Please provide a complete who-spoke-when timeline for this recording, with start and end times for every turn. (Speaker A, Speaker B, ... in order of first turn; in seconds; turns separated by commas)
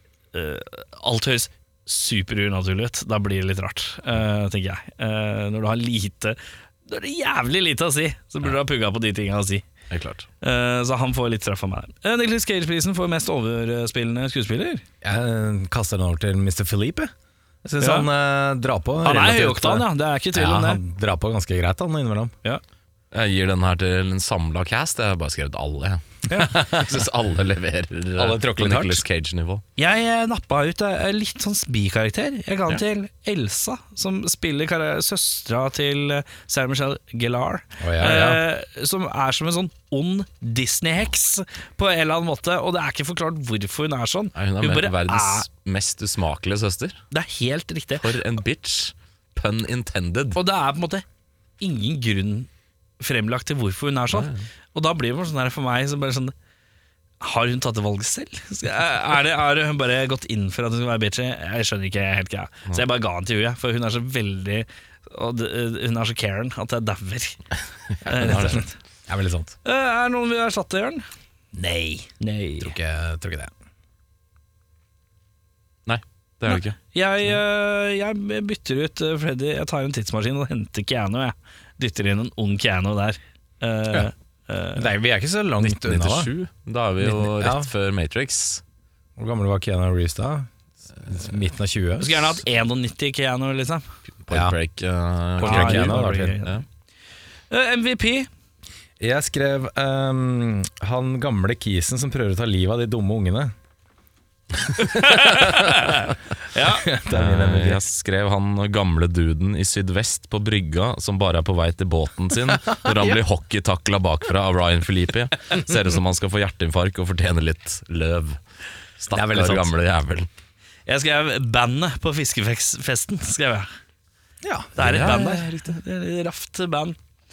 Speaker A: 0.3-9.6, Speaker B: 9.9-10.3, Speaker A: 10.4-14.8, Speaker C: 15.0-17.1, Speaker C: 17.6-22.3, Speaker A: 17.8-18.1, Speaker A: 19.0-20.8, Speaker B: 23.1-29.6, Speaker C: 26.3-27.0, Speaker C: 28.2-29.0, Speaker A: 29.8-45.5, Speaker C: 37.8-38.4, Speaker B: 44.3-47.0, Speaker A: 47.1-48.2, Speaker B: 48.0-50.4, Speaker A: 50.3-51.0, Speaker A: 51.6-52.5, Speaker A: 53.0-56.3, Speaker B: 54.1-54.5, Speaker A: 57.2-67.5, Speaker A: 68.0-68.7, Speaker B: 68.1-68.6, Speaker C: 68.2-69.5, Speaker A: 69.6-71.0, Speaker C: 71.5-72.1, Speaker A: 72.2-72.7, Speaker C: 72.6-73.5, Speaker B: 75.8-76.8, Speaker A: 76.5-84.9, Speaker C: 84.8-86.3, Speaker B: 85.6-88.6, Speaker C: 87.0-87.7, Speaker C: 89.2-90.5, Speaker C: 91.0-92.2, Speaker A: 92.0-93.9, Speaker B: 94.2-96.6, Speaker C: 94.3-94.5, Speaker C: 95.4-96.4, Speaker A: 95.4-96.6, Speaker A: 97.5-98.3, Speaker C: 99.0-103.5, Speaker A: 104.8-106.9, Speaker C: 106.6-107.8, Speaker B: 107.1-118.4, Speaker C: 112.7-113.2, Speaker B: 119.0-120.3, Speaker C: 119.1-119.7, Speaker A: 120.9-123.7, Speaker C: 124.4-125.5, Speaker A: 124.8-127.0, Speaker B: 124.8-125.6